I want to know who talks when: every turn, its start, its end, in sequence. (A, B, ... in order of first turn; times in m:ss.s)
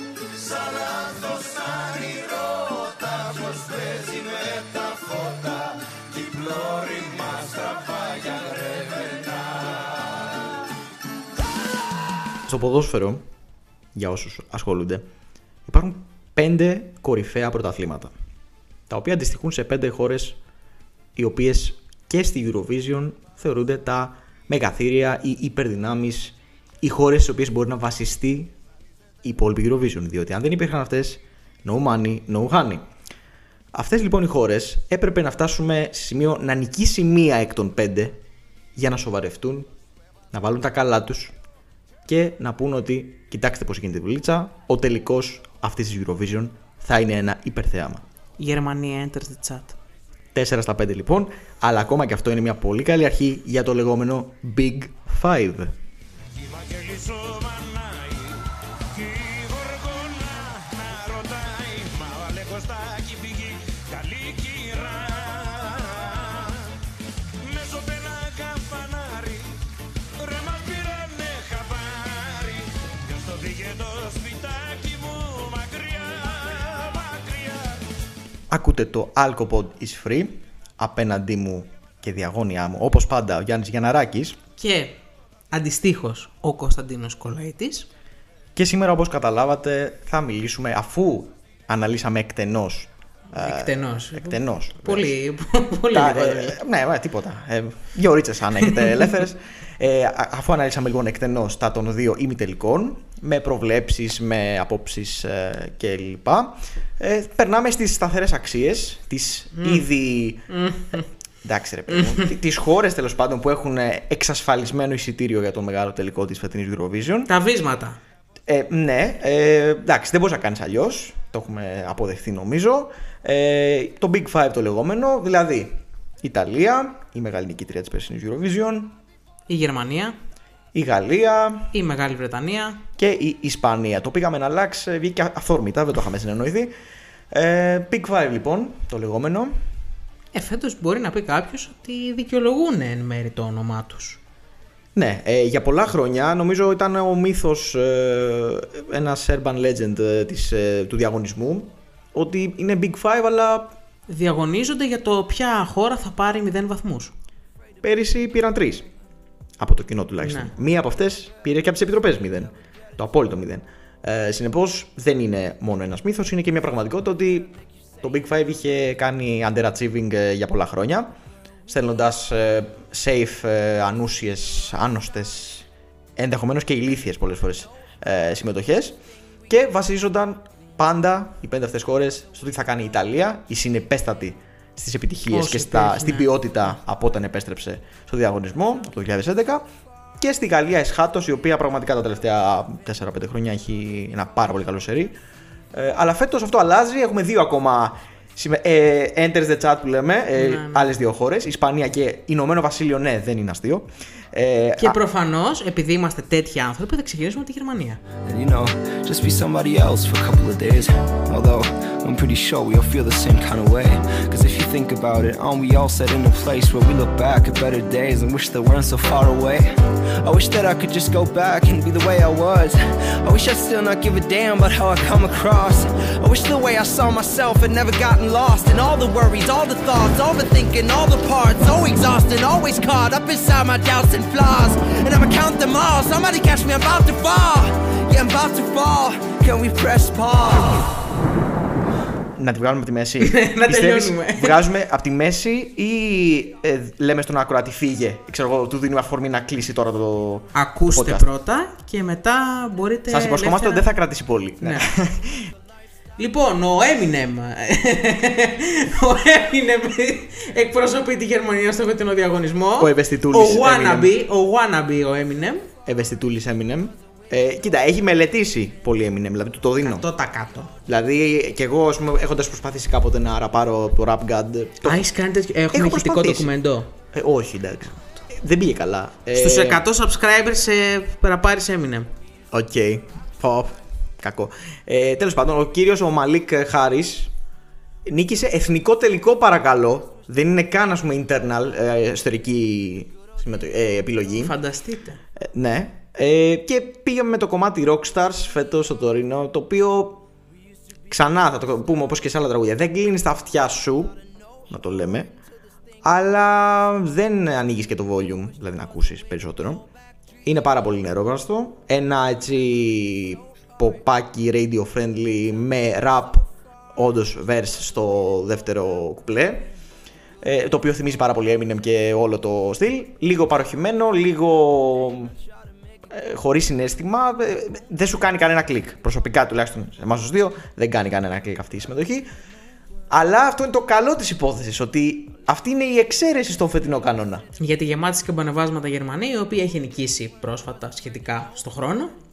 0:00.3-0:10.0 A
0:12.4-0:13.2 B
0:13.9-0:15.0 B
0:15.6-0:18.1 B
0:18.9-0:20.4 B
0:21.2-0:28.5 B
0:29.2-0:32.8 B
0:33.7-0:38.2 B
0:38.7-0:39.7 B
0:40.3-0:41.3 B
0:42.0-0:48.0 B
0:48.4-0:49.8 C
0:50.3-0:55.7 B
0:56.3-1:06.7 A
1:07.4-1:09.6 A
1:10.2-1:17.8 A
1:18.5-1:24.4 B
1:24.6-1:25.0 C
1:25.5-1:27.9 C
1:28.5-1:35.1 B
1:33.3-1:36.6 C
1:35.9-1:50.6 B
1:38.6-1:39.0 C
1:49.6-1:49.8 C
1:50.5-1:51.0 C
1:51.4-1:57.3 B
1:51.9-1:52.3 C
1:57.3-1:58.0 C
1:58.5-2:09.0 B
2:09.5-2:10.2 C
2:10.7-2:11.7 B
2:11.7-2:12.8 C
2:13.0-2:16.7 B
2:17.3-2:19.6 B
2:20.3-2:24.2 C
2:24.9-2:33.8 B
2:34.1-2:37.1 C
2:37.8-2:38.9 B
2:39.6-2:51.1 B
2:40.2-2:40.5 C
2:51.7-2:59.0 B
2:59.5-3:09.6 B
3:05.3-3:06.4 C
3:10.2-3:15.1 B
3:15.7-3:25.0 B
3:20.3-3:20.9 C
3:24.8-3:28.0 C
3:28.2-4:01.0 D
4:02.3-4:11.2 B
4:03.2-4:04.6 C
4:10.5-4:13.8 C
4:13.1-4:15.5 B
4:14.6-4:14.9 C
4:16.2-4:25.7 C
4:22.8-4:24.2 B
4:25.8-4:30.0 B
4:29.8-4:30.7 C
4:30.8-4:35.0 B
4:34.8-4:36.9 C
4:35.7-4:36.5 B
4:37.1-4:39.8 B
4:39.3-4:42.1 C
4:42.5-4:47.3 B
4:48.0-4:54.6 B
4:54.4-4:55.2 C
4:55.4-5:00.2 B
5:01.1-5:05.3 B
5:06.0-5:09.8 B
5:10.4-5:19.7 B
5:20.4-5:25.3 B
5:26.1-5:32.2 B
5:33.1-5:37.4 B
5:37.6-5:42.1 C